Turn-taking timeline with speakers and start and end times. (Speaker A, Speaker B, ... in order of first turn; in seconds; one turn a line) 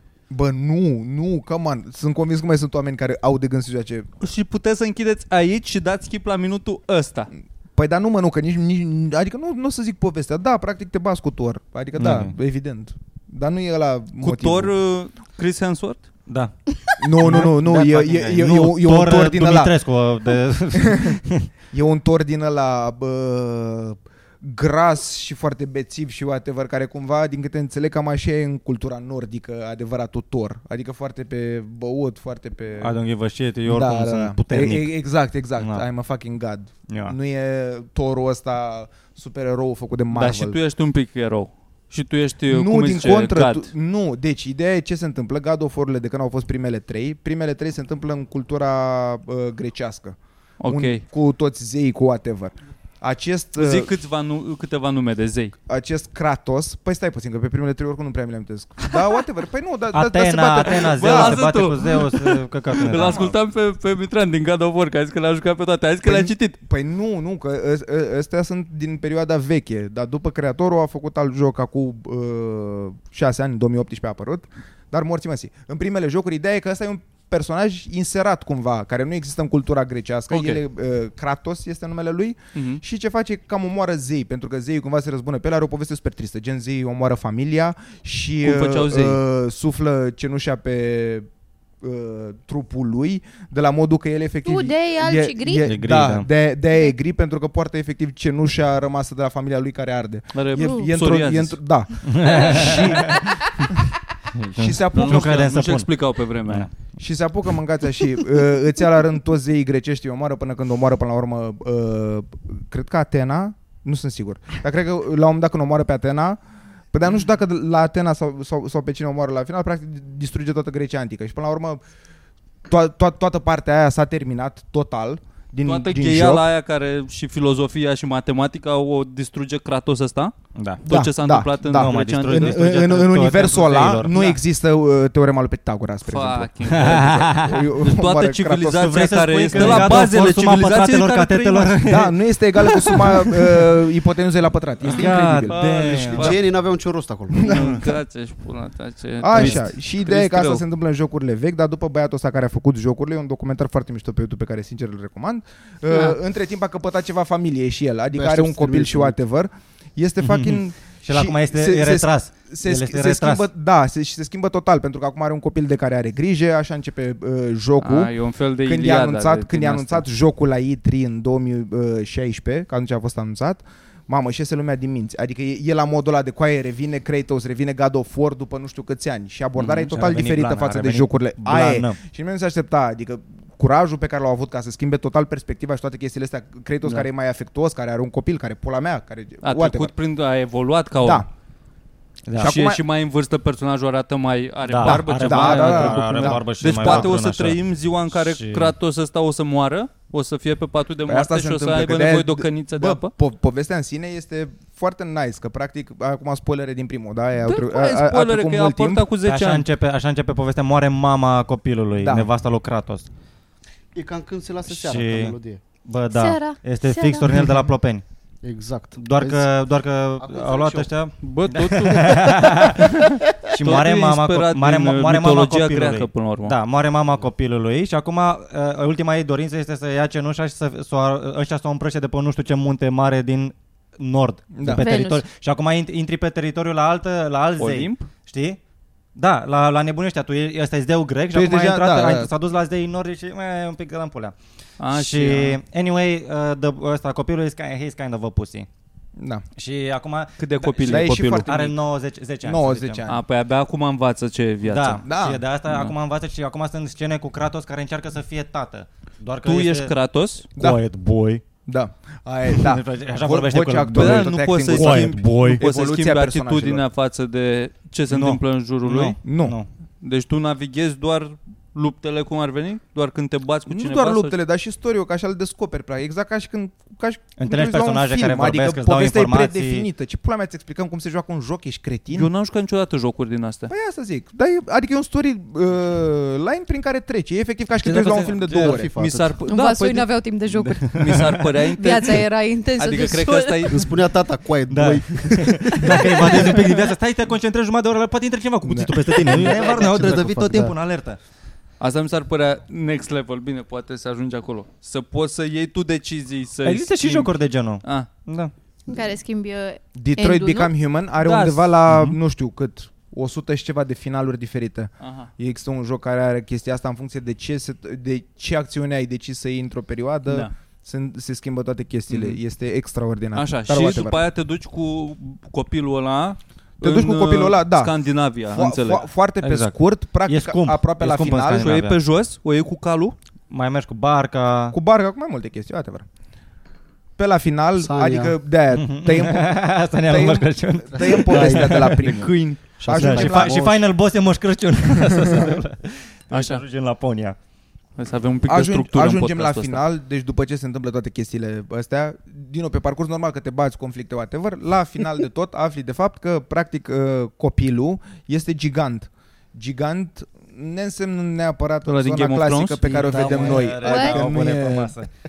Speaker A: 0.3-4.1
Speaker B: 4.2-7.3
Speaker A: 7.8-14.7
Speaker C: 12.0-12.3
Speaker B: 14.2-16.1
Speaker C: 16.3-16.5
Speaker A: 17.0-19.7
Speaker C: 17.2-21.5
Speaker A: 20.8-21.2
Speaker A: 21.7-33.0
Speaker C: 32.8-34.9
Speaker A: 33.7-40.6
Speaker C: 35.6-35.8
Speaker C: 36.9-37.2
Speaker B: 40.1-43.7
Speaker A: 42.5-53.9
Speaker B: 50.6-51.0
Speaker B: 53.6-55.5
Speaker A: 55.7-61.5
Speaker C: 59.9-63.4
Speaker B: 60.7-66.6
Speaker A: 66.0-91.3
Speaker B: 80.3-80.6
Speaker B: 82.5-82.8
Speaker B: 88.4-89.2
Speaker A: 91.8-103.4
Speaker D: 94.5-95.7
Speaker C: 95.6-96.3
Speaker B: 100.3-101.6
Speaker D: 100.6-100.8
Speaker C: 102.0-103.6
Speaker C: 104.3-105.9
Speaker A: 104.6-105.5
Speaker B: 104.9-106.7
Speaker C: 106.5-106.7
Speaker A: 107.0-116.4
Speaker A: 116.9-121.8
Speaker A: 122.7-126.5
Speaker B: 125.7-130.3
Speaker C: 130.6-130.9
Speaker B: 130.8-132.7
Speaker A: 130.9-140.1
Speaker C: 131.7-134.3
Speaker B: 136.1-141.9
Speaker C: 136.7-137.7
Speaker C: 138.8-143.1
Speaker A: 141.9-145.6
Speaker B: 144.8-146.4
Speaker C: 144.9-146.4
Speaker E: 145.7-147.6
Speaker A: 147.4-147.7
Speaker B: 147.4-150.6
Speaker A: 149.2-168.1
Speaker C: 149.3-149.6
Speaker E: 158.1-159.2
Speaker C: 160.2-163.4
Speaker B: 167.8-170.1
Speaker A: 168.6-189.9
Speaker C: 179.6-182.0
Speaker B: 189.4-191.3
Speaker C: 192.3-192.5
Speaker A: 192.4-192.8
Speaker B: 192.4-203.1
Speaker C: 194.7-198.8
Speaker A: 194.8-197.2
Speaker A: 201.1-209.1
Speaker B: 207.4-209.7
Speaker C: 209.2-213.1
Speaker A: 212.0-212.3
Speaker E: 213.9-215.6
Speaker C: 214.7-218.0
Speaker D: 216.1-217.3
Speaker E: 218.4-219.5
Speaker C: 219.0-223.0
Speaker E: 220.2-220.9
Speaker B: 221.2-226.6
Speaker E: 222.0-222.7
Speaker C: 223.5-238.6
Speaker A: 234.5-234.9
Speaker D: 234.8-235.2
Speaker B: 237.6-238.1
Speaker C: 239.2-244.3
Speaker A: 241.3-242.3
Speaker B: 244.8-245.6
Speaker C: 244.9-248.7
Speaker A: 249.2-249.4
Speaker C: 249.6-253.0
Speaker B: 250.4-251.6
Speaker A: 250.8-251.7
Speaker A: 252.4-253.2
Speaker B: 253.1-255.0
Speaker C: 254.7-259.9
Speaker A: 255.1-255.4
Speaker B: 255.7-255.9
Speaker B: 259.4-260.5
Speaker C: 260.6-261.4
Speaker A: 261.7-266.8
Speaker C: 262.5-265.6
Speaker B: 263.9-269.2
Speaker C: 268.1-269.7
Speaker A: 269.2-269.6
Speaker B: 270.0-274.4
Speaker A: 273.7-282.3
Speaker C: 277.4-279.9
Speaker B: 282.1-283.7
Speaker A: 283.7-288.9
Speaker C: 287.8-288.4
Speaker E: 287.9-289.4
Speaker B: 288.9-290.2
Speaker D: 289.5-293.8
Speaker B: 290.9-292.2
Speaker C: 291.0-291.3
Speaker B: 292.8-293.9
Speaker E: 293.7-296.6
Speaker C: 294.7-301.2
Speaker D: 295.8-296.6
Speaker A: 298.7-299.0
Speaker E: 299.2-300.8
Speaker B: 299.5-299.9
Speaker B: 301.8-307.3
Speaker C: 306.6-308.5
Speaker B: 307.8-308.1
Speaker D: 308.9-310.7
Speaker A: 309.9-324.2
Speaker B: 311.2-311.7
Speaker C: 311.9-312.2
Speaker B: 315.0-315.3
Speaker B: 320.3-320.5
Speaker B: 322.1-322.4
Speaker B: 323.3-329.1
Speaker A: 326.8-327.9
Speaker A: 328.5-331.7
Speaker C: 329.4-332.0
Speaker B: 331.4-333.2
Speaker C: 333.5-334.8
Speaker A: 334.7-336.1
Speaker A: 337.2-343.7
Speaker E: 337.8-338.4
Speaker C: 338.7-342.3
Speaker E: 341.3-342.3
Speaker E: 342.8-343.9
Speaker C: 342.9-347.4
Speaker A: 345.0-345.5
Speaker B: 346.3-346.6
Speaker B: 348.0-349.8
Speaker A: 348.5-364.9
Speaker B: 361.9-363.6
Speaker C: 362.9-365.1
Speaker E: 363.3-363.6
Speaker D: 363.8-364.2